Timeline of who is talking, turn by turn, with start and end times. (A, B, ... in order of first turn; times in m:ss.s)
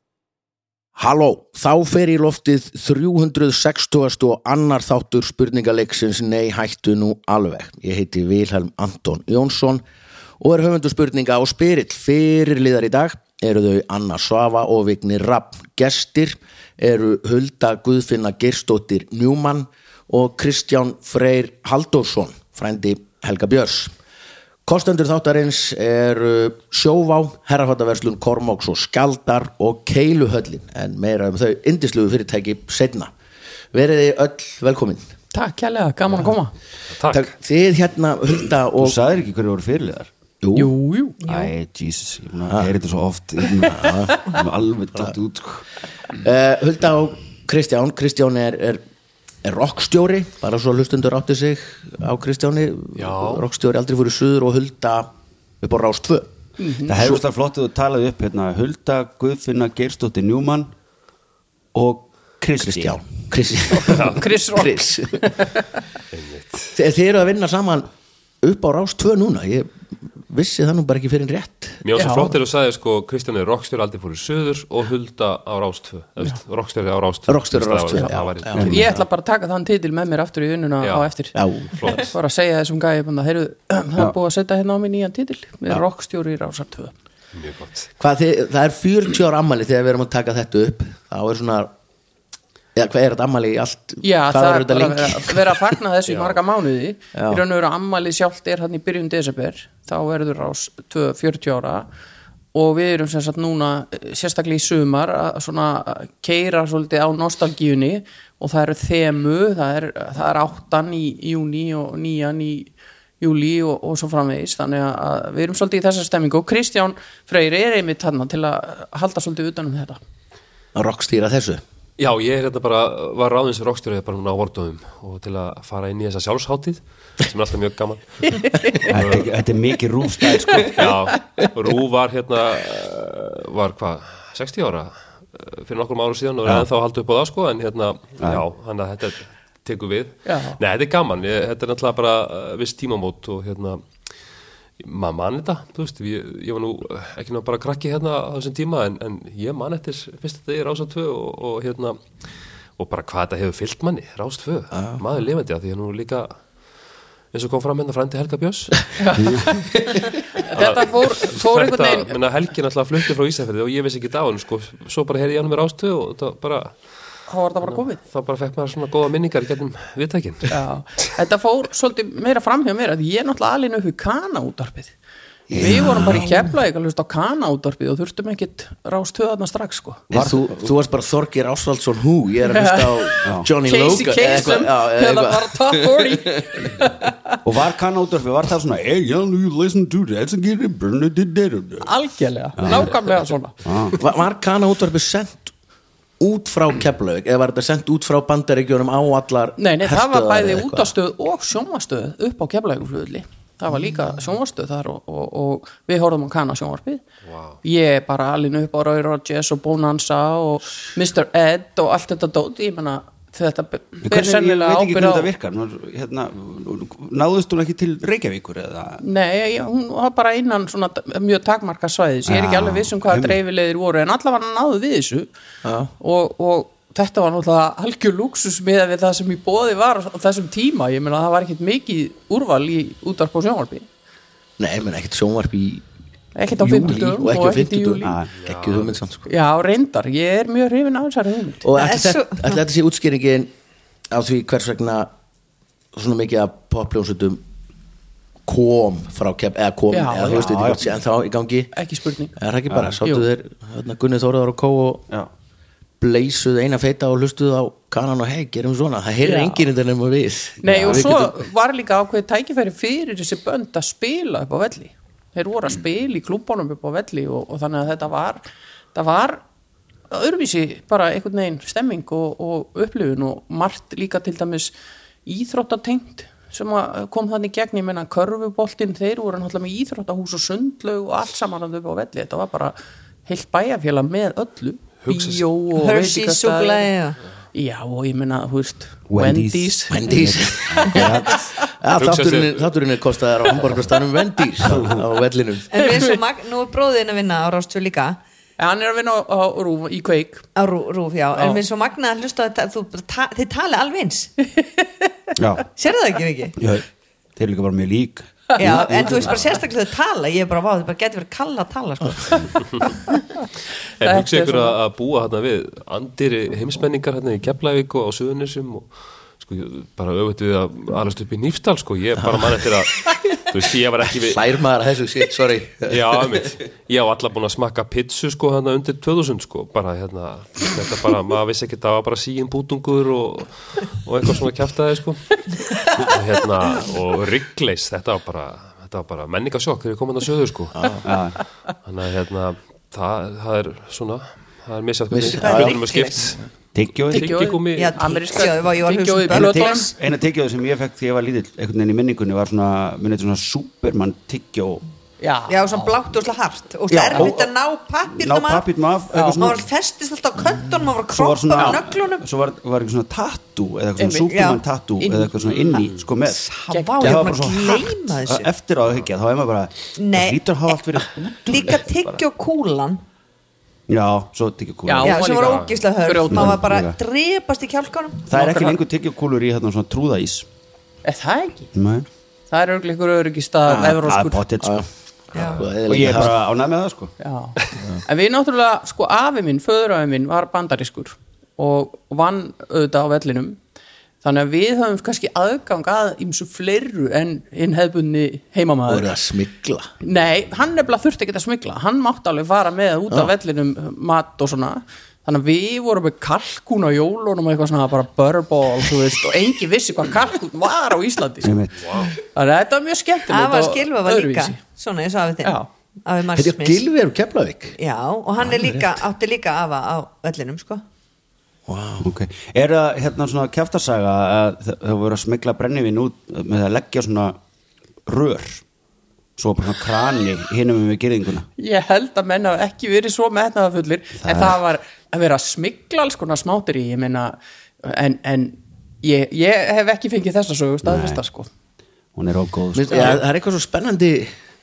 0:01.0-0:09.8 A
0:10.4-0:23.9 A
0:24.6-0:33.1 A
0:33.7-0:35.0 A
0:35.3-0:36.5 B
0:36.9-0:37.3 C
0:37.1-0:39.0 A
0:38.8-0:40.1 D
0:40.4-0:40.7 A
0:40.5-0:41.2 B
0:41.2-0:41.5 E
0:41.2-0:45.6 D
0:43.6-0:44.4 A
0:46.2-0:48.8 A
0:49.4-0:56.3 A
0:53.0-0:53.4 C
0:56.6-0:56.9 B
0:56.8-1:00.7 D
0:56.9-0:57.2 A
1:01.7-1:04.0 D
1:02.6-1:05.3 A
1:03.8-1:04.2 C
1:03.9-1:05.6 B
1:06.1-1:06.7 C
1:06.7-1:07.9 A
1:08.4-1:09.7 A
1:10.3-1:12.3 A
1:11.8-1:19.0 C
1:11.9-1:12.3 B
1:17.3-1:18.8 A
1:18.5-1:18.9 D
1:18.6-1:26.9 B
1:21.3-1:21.7 A
1:21.7-1:22.1 C
1:27.3-1:27.9 C
1:28.0-1:31.7 A
1:32.7-1:35.4 A
1:34.0-1:41.9 B
1:37.1-1:37.4 A
1:42.5-2:00.0 B
2:00.7-2:01.6 A
2:02.0-2:08.4 C
2:08.3-2:08.9 B
2:08.8-2:10.9 D
2:08.9-2:09.2 C
2:10.4-2:10.8 B
2:10.7-2:23.8 C
2:20.2-2:20.6 B
2:24.8-2:32.0 C
2:32.8-2:36.4 C
2:34.7-2:35.0 A
2:37.3-2:38.9 C
2:39.0-2:42.2 B
2:39.2-2:39.5 D
2:40.5-2:46.8 C
2:47.3-2:48.0 B
2:47.6-2:50.5 C
2:50.5-2:54.9 B
2:55.5-2:56.3 D
2:55.5-3:00.0 B
3:00.1-3:00.7 D
3:00.1-3:06.6 A
3:02.4-3:07.4 B
3:07.4-3:11.9 D
3:11.8-3:14.0 B
3:12.6-3:12.9 D
3:13.6-3:14.0 D
3:14.0-3:15.5 A
3:16.2-3:20.9 A
3:19.6-3:27.0 B
3:27.6-3:35.3 B
3:34.0-3:39.0 D
3:39.0-3:45.3 B
3:42.2-3:43.4 D
3:45.6-3:45.9 A
3:46.0-3:53.9 B
3:54.6-3:55.8 A
3:56.3-3:58.2 B
3:56.5-3:59.2 A
3:58.0-3:58.3 D
3:58.4-3:58.9 C
3:59.2-4:01.6 B
4:01.6-4:03.5 A
4:01.7-4:02.6 E
4:04.1-4:05.1 A
4:05.9-4:07.4 A
4:08.4-4:11.7 A
4:09.9-4:10.5 B
4:10.4-4:10.9 D
4:11.7-4:12.3 B
4:12.4-4:15.0 A
4:16.0-4:21.4 A
4:19.2-4:19.6 B
4:20.6-4:28.4 B
4:20.7-4:21.0 D
4:28.9-4:29.4 B
4:30.1-4:34.7 B
4:35.2-4:42.7 B
4:43.2-4:46.9 B
4:45.0-4:45.4 C
4:45.8-4:47.2 E
4:47.5-4:50.0 B
4:49.1-4:51.4 D
4:49.9-4:55.7 A
4:51.9-4:52.7 C
4:54.7-4:55.0 D
4:55.7-4:58.2 E
4:55.7-4:56.2 B
4:58.6-5:00.4 B
5:00.6-5:04.3 E
5:01.3-5:01.6 B
5:05.4-5:05.7 D
5:05.8-5:06.6 E
5:06.6-5:06.8 D
5:07.4-5:09.3 D
5:08.5-5:09.4 B
5:08.6-5:13.1 E
5:14.0-5:18.9 C
5:14.0-5:14.8 B
5:19.4-5:24.4 C
5:22.3-5:22.6 A
5:24.0-5:26.5 A
5:25.9-5:35.4 C
5:36.0-5:40.8 C
5:40.7-5:41.1 A
5:41.0-5:41.4 D
5:41.8-5:46.4 C
5:45.1-5:45.8 A
5:45.2-5:46.3 E
5:46.7-5:47.4 D
5:47.1-5:49.9 B
5:47.1-5:48.1 C
5:47.7-5:50.0 E
5:49.3-5:54.8 D
5:55.2-5:55.8 B
5:55.5-5:58.6 E
5:56.9-5:57.5 D
5:57.1-5:57.4 B
5:58.1-5:59.6 D
5:59.1-5:59.6 B
5:59.3-6:02.2 E
6:01.1-6:12.2 D
6:01.5-6:01.8 B
6:04.0-6:04.3 B
6:04.3-6:04.6 E
6:05.0-6:05.9 B
6:06.2-6:08.5 E
6:06.7-6:07.4 B
6:10.0-6:10.8 E
6:11.4-6:13.0 E
6:13.9-6:15.3 D
6:14.8-6:16.6 B
6:15.0-6:18.3 E
6:15.4-6:15.8 C
6:16.3-6:17.0 D
6:18.3-6:20.5 D
6:18.3-6:18.8 B
6:21.0-6:21.7 B
6:21.7-6:22.0 D
6:22.5-6:24.4 B
6:23.7-6:24.0 A
6:23.8-6:24.9 D
6:24.6-6:26.4 A
6:25.3-6:25.6 E
6:25.7-6:27.1 D
6:27.2-6:33.6 B
6:34.2-6:39.1 B
6:38.9-6:39.9 A
6:40.0-6:51.6 B
6:51.4-6:51.9 D
6:51.8-6:52.1 C
6:52.3-6:54.6 B
6:53.3-6:56.8 E
6:55.4-6:55.7 B
6:56.3-6:57.8 A
6:57.8-7:00.8 E
6:58.4-6:59.0 A
7:01.7-7:02.1 A
7:02.0-7:07.4 D
7:08.0-7:08.6 D
7:09.4-7:11.5 D
7:11.6-7:21.5 B
7:14.2-7:14.6 D
7:20.8-7:21.2 D
7:22.1-7:23.2 D
7:22.7-7:24.3 A
7:22.9-7:23.2 B